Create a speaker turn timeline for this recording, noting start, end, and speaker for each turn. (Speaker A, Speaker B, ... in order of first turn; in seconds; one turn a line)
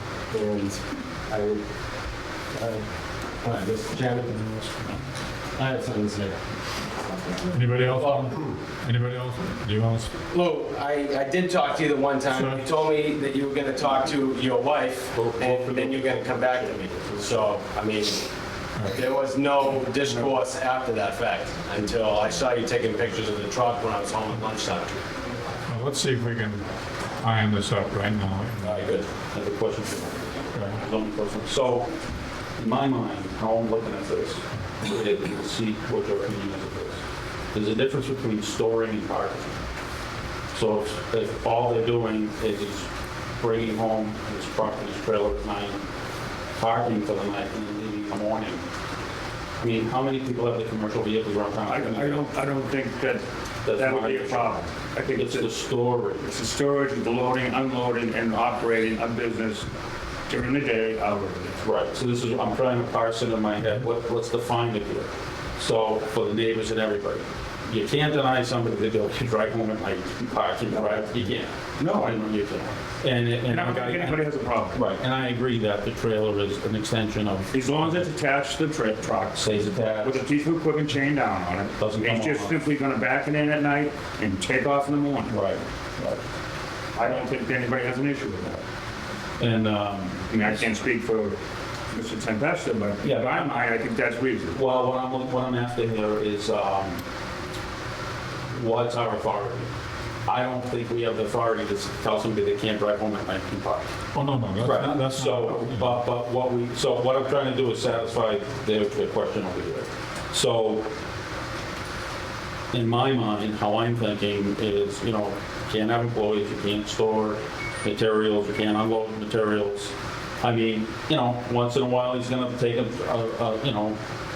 Speaker A: 0.3-1.6
Speaker A: 2.5-2.9
Speaker A: 3.4-4.7
Speaker A: 5.5-6.4
Speaker B: 7.5-10.1
Speaker A: 7.7-8.3
Speaker A: 10.3-18.2
Speaker B: 12.3-12.6
Speaker C: 15.1-17.5
Speaker A: 18.8-25.0
Speaker B: 25.7-26.6
Speaker B: 27.2-28.8
Speaker A: 28.6-29.1
Speaker C: 29.3-31.9
Speaker B: 30.5-30.8
Speaker C: 32.6-37.0
Speaker C: 37.5-39.6
Speaker C: 40.5-42.9
Speaker C: 43.4-45.9
Speaker C: 46.6-48.6
Speaker C: 49.6-52.2
Speaker D: 51.7-53.2
Speaker C: 53.6-54.4
Speaker D: 53.7-55.5
Speaker C: 55.1-56.3
Speaker D: 56.2-59.7
Speaker D: 60.3-61.6
Speaker C: 61.6-74.2
Speaker D: 70.7-71.0
Speaker D: 71.8-72.2
Speaker D: 73.5-74.8
Speaker C: 74.7-78.0
Speaker D: 77.5-85.3
Speaker C: 79.3-80.2
Speaker C: 81.8-82.5
Speaker C: 85.3-86.2
Speaker D: 86.9-88.6
Speaker C: 89.4-90.3
Speaker D: 90.3-91.3
Speaker D: 91.9-94.6
Speaker C: 93.0-93.6
Speaker C: 94.5-97.0
Speaker C: 98.5-99.7
Speaker C: 100.2-103.9
Speaker B: 104.1-106.0
Speaker C: 104.6-110.9
Speaker C: 112.7-124.0